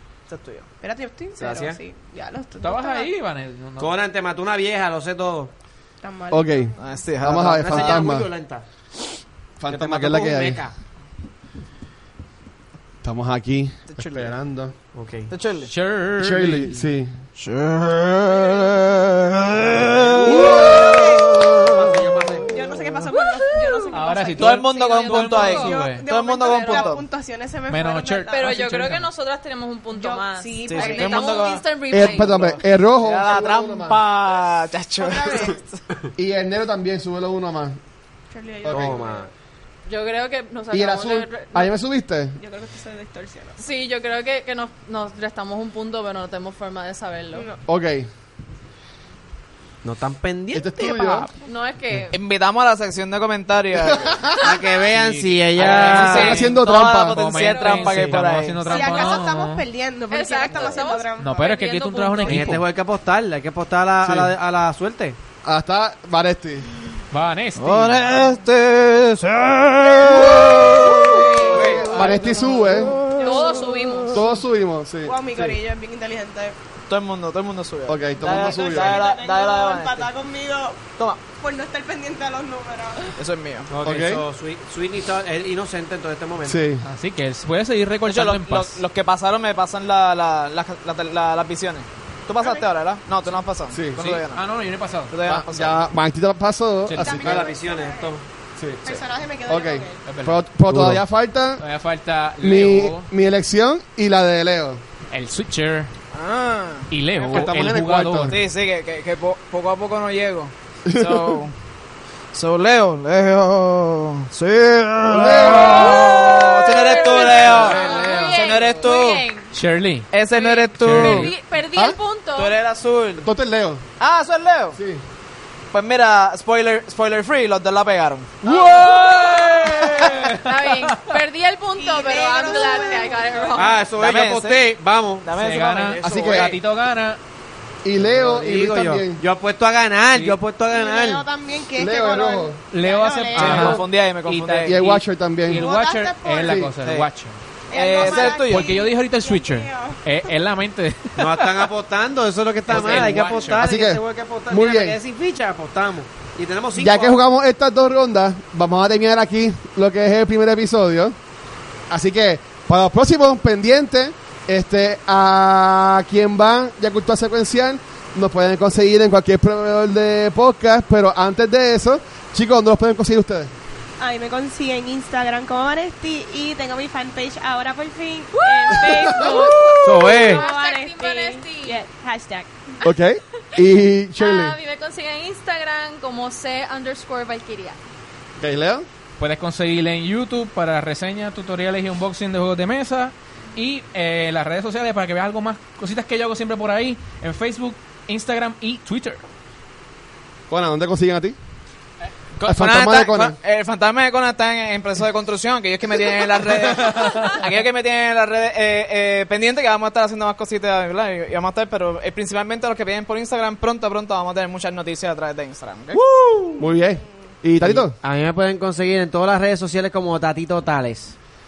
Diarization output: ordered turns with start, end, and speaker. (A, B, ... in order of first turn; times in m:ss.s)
0:00.3-0:00.7 A
0:00.8-0:03.1 B
0:01.4-0:01.8 C
0:02.6-0:03.9 D
0:03.8-0:05.5 C
0:06.0-0:06.8 B
0:06.3-0:08.3 E
0:06.8-0:08.1 A
0:07.3-0:08.6 C
0:09.6-0:10.6 E
0:09.7-0:10.7 C
0:13.0-0:14.7 E
0:13.9-0:14.3 A
0:14.9-0:15.3 C
0:15.3-0:15.7 A
0:15.7-0:16.9 D
0:16.2-0:17.1 E
0:17.4-0:21.1 A
0:18.2-0:19.2 B
0:20.0-0:21.0 C
0:20.0-0:21.0 D
0:20.2-0:21.4 B
0:21.6-0:22.3 C
0:21.7-0:22.8 D
0:22.5-0:28.6 B
0:23.1-0:25.8 F
0:23.9-0:26.0 D
0:24.4-0:27.0 A
0:26.4-0:26.9 F
0:27.7-0:29.1 D
0:28.3-0:32.5 F
0:29.9-0:31.6 B
0:30.6-0:35.6 A
0:31.9-0:34.0 E
0:35.0-0:35.8 B
0:36.2-0:37.8 E
0:38.3-0:39.3 B
0:38.6-0:39.0 E
0:38.7-0:39.3 C
0:39.8-0:41.7 F
0:40.7-0:42.4 E
0:42.4-0:43.6 B
0:43.6-0:47.5 F
0:47.3-0:47.6 B
0:47.6-0:48.1 E
0:49.8-0:51.3 C
0:50.5-0:51.3 E
0:51.0-0:52.2 F
0:52.1-0:54.2 A
0:53.7-0:54.5 E
0:54.4-0:56.4 C
0:54.7-0:59.6 D
0:55.6-0:58.9 A
0:56.0-0:57.2 E
0:57.3-0:58.1 F
0:58.6-1:01.5 B
0:58.7-0:59.2 F
1:00.1-1:02.6 F
1:01.2-1:02.6 D
1:02.2-1:05.2 C
1:04.0-1:04.3 E
1:05.4-1:06.7 E
1:07.1-1:08.2 D
1:07.6-1:12.1 A
1:10.0-1:13.0 E
1:11.1-1:11.6 F
1:11.4-1:12.9 D
1:12.7-1:13.5 A
1:13.1-1:14.3 F
1:14.1-1:15.6 E
1:15.0-1:16.5 B
1:16.9-1:20.1 A
1:17.9-1:19.0 E
1:18.2-1:23.1 B
1:23.2-1:23.7 A
1:23.7-1:26.6 C
1:23.8-1:24.2 E
1:26.4-1:26.8 E
1:26.8-1:28.8 D
1:28.0-1:34.5 A
1:32.4-1:32.6 B
1:33.7-1:34.0 E
1:34.0-1:35.4 D
1:35.1-1:35.8 A
1:35.4-1:37.4 E
1:36.8-1:37.3 D
1:37.0-1:38.1 B
1:37.0-1:38.2 C
1:38.6-1:38.8 E
1:38.8-1:40.0 B
1:39.4-1:41.6 E
1:40.0-1:40.4 D
1:40.7-1:41.0 C
1:41.6-1:43.1 D
1:42.4-1:44.8 E
1:45.1-1:45.9 D
1:46.1-1:47.7 A
1:46.9-1:48.4 D
1:47.3-1:48.4 E
1:48.3-1:51.5 A
1:50.8-1:51.4 E
1:52.3-1:59.2 A
1:55.0-1:56.4 E
1:55.5-1:59.5 F
1:57.3-1:58.9 D
1:57.6-1:58.2 E
1:59.5-2:00.2 D
2:00.1-2:01.3 A
2:00.4-2:02.6 F
2:00.8-2:01.4 D
2:02.4-2:03.3 A
2:03.2-2:03.8 E
2:04.0-2:04.8 A
2:04.7-2:05.0 E
2:05.7-2:08.4 A
2:08.4-2:10.1 E
2:08.4-2:11.1 D
2:10.4-2:13.8 F
2:11.8-2:13.5 B
2:13.5-2:15.3 C
2:13.8-2:14.6 A
2:15.2-2:16.5 A
2:15.3-2:17.2 D
2:16.0-2:16.6 E
2:17.8-2:19.2 E
2:17.9-2:21.2 C
2:20.7-2:23.8 B
2:21.8-2:22.6 E
2:22.7-2:27.4 D
2:23.3-2:24.9 A
2:23.4-2:23.8 E
2:24.6-2:25.6 E
2:25.5-2:26.7 B
2:26.4-2:26.7 E
2:26.7-2:27.1 A
2:27.7-2:30.0 B
2:27.7-2:28.8 A
2:27.9-2:31.7 D
2:31.2-2:37.2 C
2:32.7-2:33.7 D
2:33.6-2:35.0 E
2:36.8-2:41.2 E
2:41.9-2:53.5 E
2:54.0-3:02.5 B
2:58.3-3:01.8 F
2:58.8-2:59.1 E
2:59.8-3:00.4 C
3:02.8-3:04.6 E
3:04.2-3:07.8 F
3:08.4-3:08.8 E
3:09.2-3:19.2 D
3:20.5-3:21.4 E
3:22.4-3:36.0 A
3:22.4-3:23.4 E
3:26.7-3:27.4 D
3:36.5-3:37.9 E
3:37.6-3:41.2 C